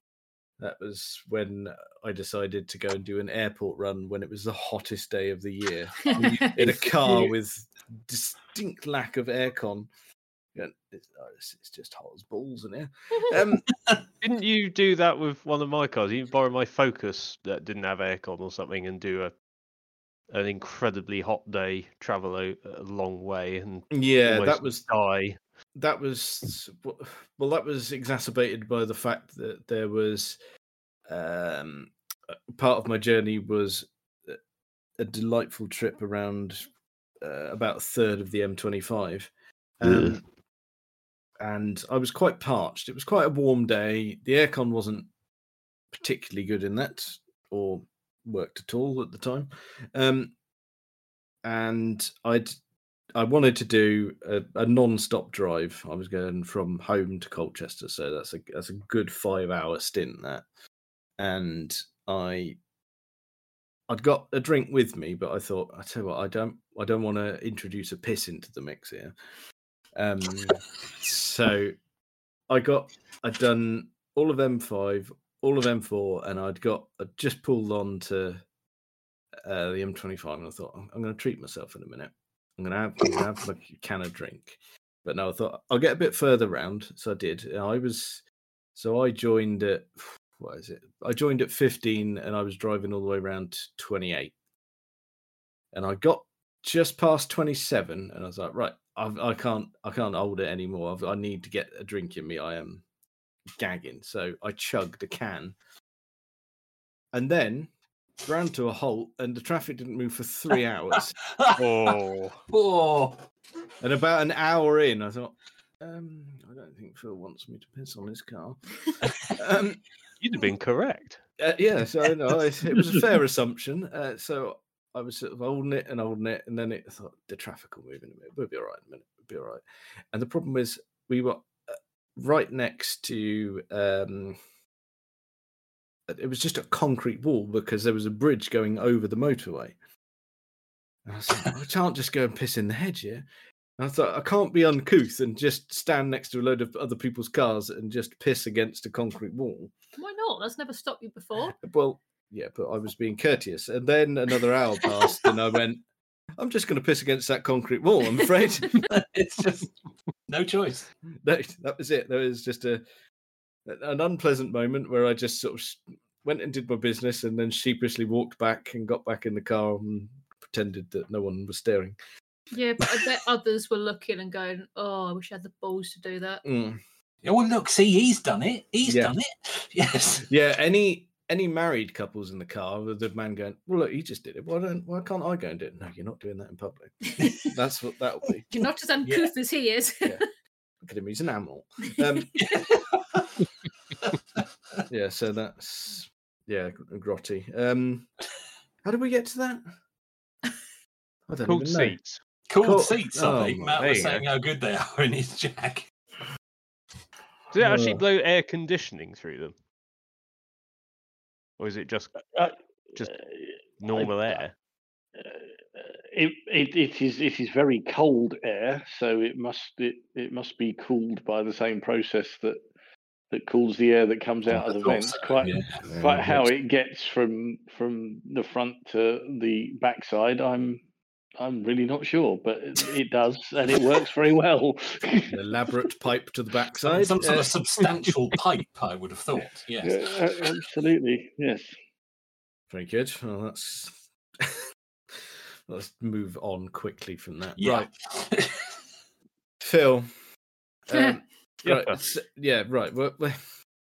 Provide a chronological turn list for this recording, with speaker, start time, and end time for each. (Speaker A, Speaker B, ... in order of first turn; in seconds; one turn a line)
Speaker A: 0.6-9.9
Speaker B: 6.0-6.5
Speaker C: 6.2-6.7
Speaker A: 10.5-13.7
Speaker D: 14.2-19.3
Speaker D: 20.3-25.4
Speaker A: 23.9-24.8
Speaker A: 25.8-30.4
Speaker A: 31.1-34.4
Speaker A: 35.0-36.7
Speaker A: 37.2-40.2
Speaker A: 41.4-45.1
Speaker A: 45.9-50.3
Speaker A: 51.4-52.5
Speaker A: 53.1-60.4
Speaker A: 61.2-62.6
Speaker A: 63.9-69.1
Speaker A: 70.0-71.8
Speaker A: 72.5-78.4
Speaker A: 79.4-88.2
Speaker A: 88.7-94.3
Speaker A: 95.7-102.8
Speaker A: 103.6-105.5
Speaker A: 107.1-107.7
Speaker A: 108.2-111.2
Speaker D: 111.5-112.4
Speaker C: 112.5-113.2
Speaker A: 113.8-119.8
Speaker D: 120.2-121.2
Speaker A: 121.4-129.6
Speaker A: 130.1-134.4
Speaker A: 136.1-139.7
Speaker A: 141.1-143.2
Speaker A: 143.8-149.7
Speaker B: 150.0-151.6
Speaker A: 151.6-155.8
Speaker A: 156.4-158.9
Speaker C: 158.8-159.7
Speaker C: 160.3-160.9
Speaker A: 161.2-162.8
Speaker A: 163.7-171.9
Speaker B: 172.5-176.4
Speaker A: 176.4-176.8
Speaker C: 177.2-180.3
Speaker A: 178.8-179.1
Speaker A: 180.2-188.5
Speaker B: 187.2-187.5
Speaker B: 188.5-190.2
Speaker C: 189.0-189.3
Speaker A: 190.8-192.4
Speaker C: 192.3-193.3
Speaker A: 194.9-198.1
Speaker A: 198.8-199.6
Speaker A: 201.3-202.0
Speaker D: 201.4-202.2
Speaker C: 202.5-205.9
Speaker A: 202.6-203.9
Speaker D: 203.8-204.2
Speaker D: 207.5-209.5
Speaker A: 207.5-208.0
Speaker D: 211.6-212.1
Speaker E: 212.3-214.4
Speaker D: 213.8-214.5
Speaker E: 215.2-222.6
Speaker E: 223.3-230.8
Speaker C: 224.5-225.8
Speaker A: 225.8-226.5
Speaker E: 231.4-235.4
Speaker A: 235.3-237.5
Speaker C: 236.8-240.6
Speaker E: 239.8-241.7
Speaker A: 242.7-247.9
Speaker C: 247.6-248.8
Speaker A: 249.6-250.1
Speaker A: 250.9-253.4
Speaker D: 251.6-252.0